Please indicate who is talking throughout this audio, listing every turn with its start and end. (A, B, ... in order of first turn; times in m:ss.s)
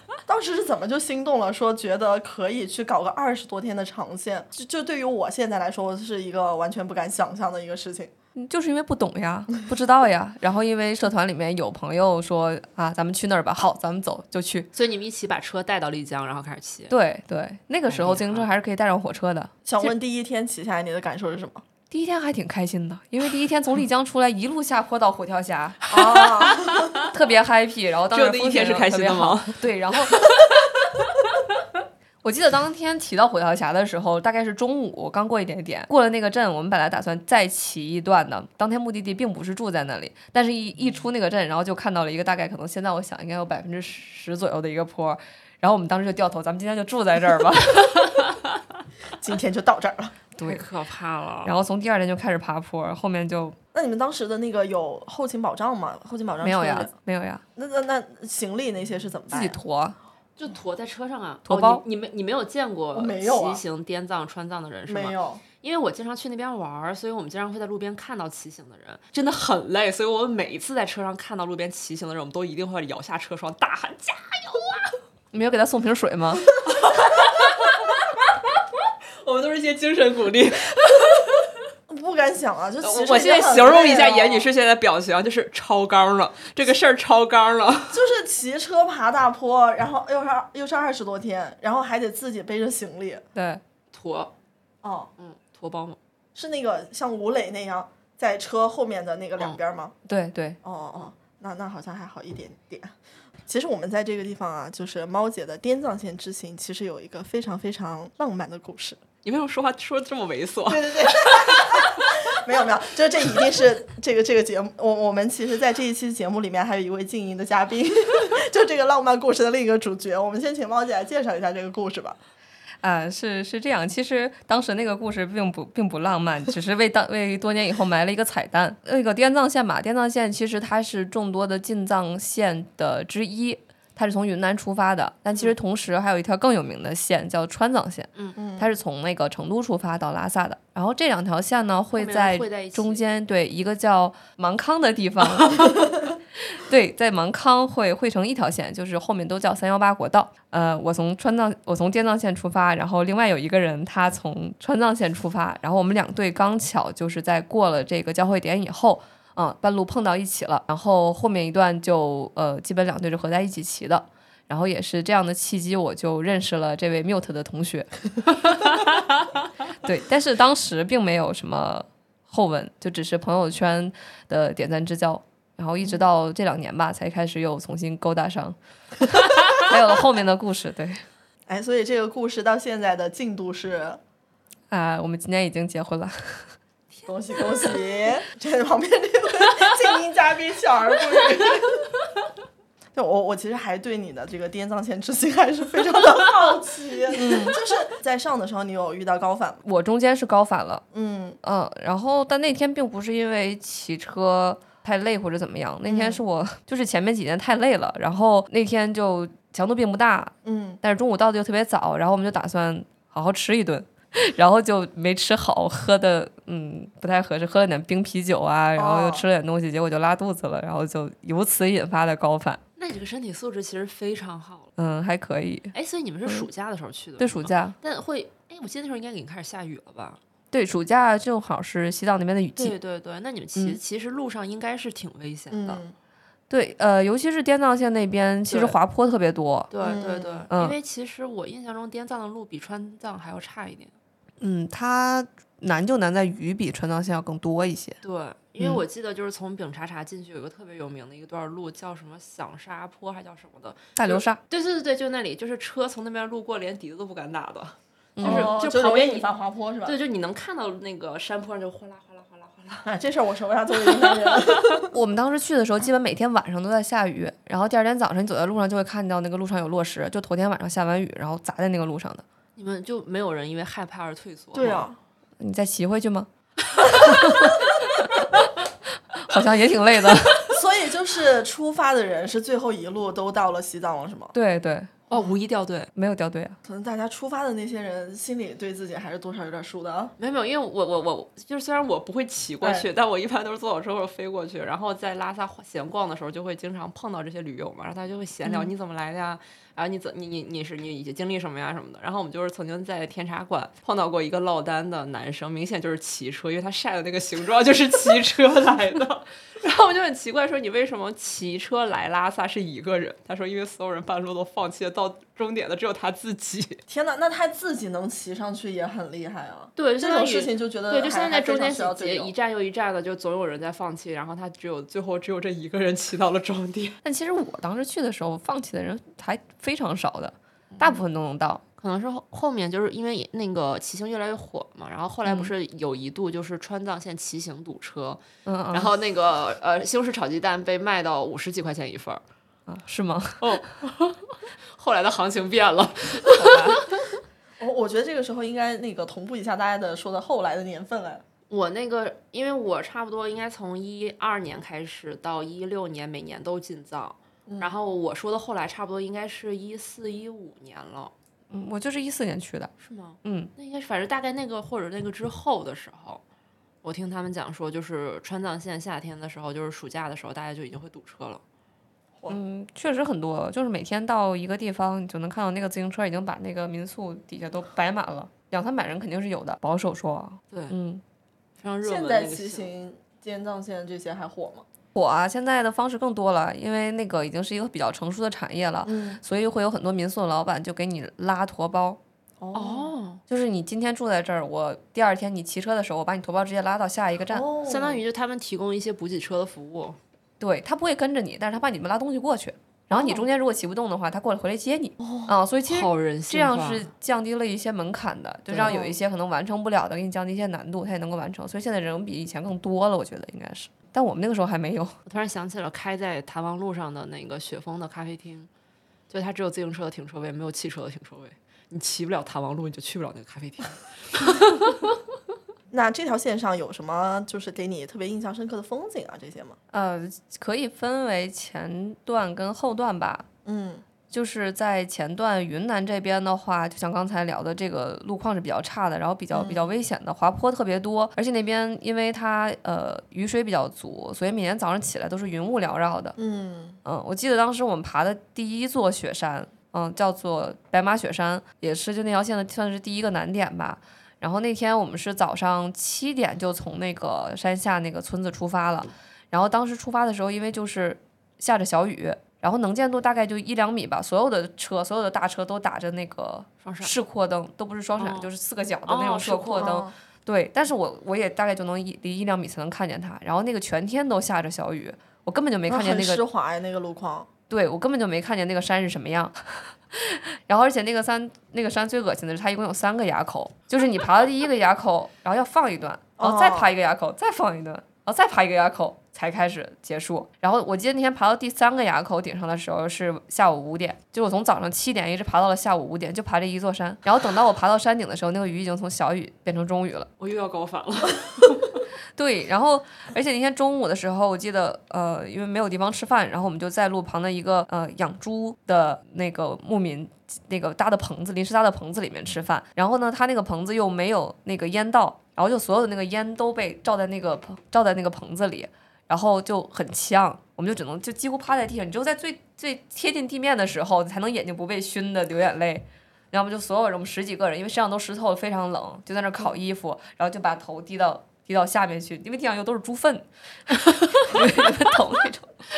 0:00.3-0:08.1 A
0:08.4-0:14.7 B
0:14.7-0:16.9 C
0:16.9-0:19.9 B
0:17.9-0:18.5 C
0:19.6-0:21.6 A
0:21.9-0:25.8 B
0:25.9-0:27.0 A
0:25.9-0:27.1 C
0:27.0-0:30.2 B
0:28.1-0:30.8 C
0:32.2-0:48.2 B
0:49.2-0:50.2 A
0:50.4-0:50.6 B
0:50.4-0:51.5 C
0:51.4-0:53.6 B
0:53.7-0:56.9 A
0:56.4-0:57.4 B
0:57.6-0:59.6 A
0:59.3-1:00.0 B
1:00.4-1:15.0 C
1:01.5-1:01.8 B
1:02.9-1:03.6 A
1:04.9-1:05.4 A
1:15.3-1:16.5 B
1:16.6-1:21.5 C
1:21.9-1:24.5 A
1:22.8-1:28.0 C
1:27.9-1:33.2 A
1:33.4-1:33.6 B
1:33.9-1:34.3 C
1:34.8-1:35.1 A
1:35.2-1:36.0 C
1:36.4-1:39.9 A
1:40.1-1:40.6 B
1:40.6-1:43.0 A
1:43.5-1:49.0 A
1:49.2-1:52.2 C
1:50.7-2:02.2 A
2:02.8-2:25.9 B
2:18.4-2:18.7 A
2:21.9-2:23.0 C
2:26.4-2:47.9 B
2:49.8-2:58.6 B
2:59.2-3:01.0 B
3:01.5-3:04.0 A
3:04.7-3:06.5 B
3:07.0-3:07.7 C
3:07.1-3:11.9 A
3:13.0-3:19.6 A
3:17.1-3:17.6 B
3:19.6-3:20.8 B
3:20.9-3:21.4 A
3:21.4-3:42.6 B
3:25.9-3:26.2 A
3:30.4-3:30.8 A
3:38.8-3:39.3 A
3:42.8-3:44.7 C
3:44.8-3:45.7 B
3:45.7-3:50.2 C
3:47.2-3:47.8 B
3:50.5-3:52.8 B
3:52.6-3:55.8 C
3:55.5-3:56.0 A
3:56.5-3:59.7 B
3:58.5-3:58.8 C
3:59.7-4:04.0 C
3:59.8-4:00.5 A
4:00.5-4:00.8 B
4:04.4-4:08.0 B
4:08.0-4:19.3 C
4:14.0-4:14.4 B
4:18.2-4:18.5 B
4:18.2-4:20.0 A
4:19.8-4:22.9 C
4:22.8-4:24.9 A
4:23.9-4:24.8 C
4:24.9-4:32.2 B
4:32.6-4:34.9 C
4:34.5-4:35.0 A
4:35.4-4:38.5 B
4:39.1-4:40.5 B
4:40.5-4:44.3 A
4:44.3-4:45.0 B
4:45.1-4:45.9 C
4:46.0-4:46.6 B
4:46.6-4:50.1 A
4:50.2-5:16.8 C
4:52.6-4:52.9 A
4:58.4-4:58.7 A
5:16.9-5:22.3 A
5:19.8-5:27.0 C
5:27.0-5:31.6 B
5:30.8-5:31.0 C
5:31.8-5:42.2 C
5:35.2-5:35.5 B
5:38.5-5:38.9 B
5:42.7-5:43.6 B
5:43.4-5:44.2 C
5:44.7-5:47.1 C
5:46.4-5:46.8 B
5:47.6-5:51.2 A
5:51.5-6:01.1 C
5:57.5-5:57.8 A
6:01.5-6:02.7 B
6:02.8-6:06.2 C
6:03.2-6:03.5 B
6:06.8-6:11.4 C
6:12.3-6:21.0 B
6:21.6-6:22.7 C
6:21.8-6:24.6 A
6:25.0-6:32.0 B
6:28.8-6:29.2 A
6:32.4-6:32.9 A
6:32.5-6:33.2 C
6:33.3-6:37.5 B
6:37.3-6:38.0 A
6:37.6-6:40.0 C
6:40.4-6:55.0 B
6:45.0-6:45.3 A
6:45.7-6:46.9 C
6:48.5-6:48.8 C
6:48.6-6:49.0 A
6:55.1-6:58.5 C
6:59.1-7:04.8 C
7:05.7-7:09.6 A
7:09.7-7:13.3 B
7:13.4-7:13.8 A
7:14.1-7:26.2 B
7:19.3-7:19.7 A
7:26.2-7:26.8 A
7:26.8-7:56.2 B
7:46.6-7:47.0 C
7:48.0-7:48.3 C
7:48.9-7:49.8 C
7:49.6-7:49.9 A
7:55.7-7:57.3 A
7:57.5-8:20.1 B
8:06.2-8:06.7 A
8:20.2-8:21.8 C
8:22.2-8:55.6 B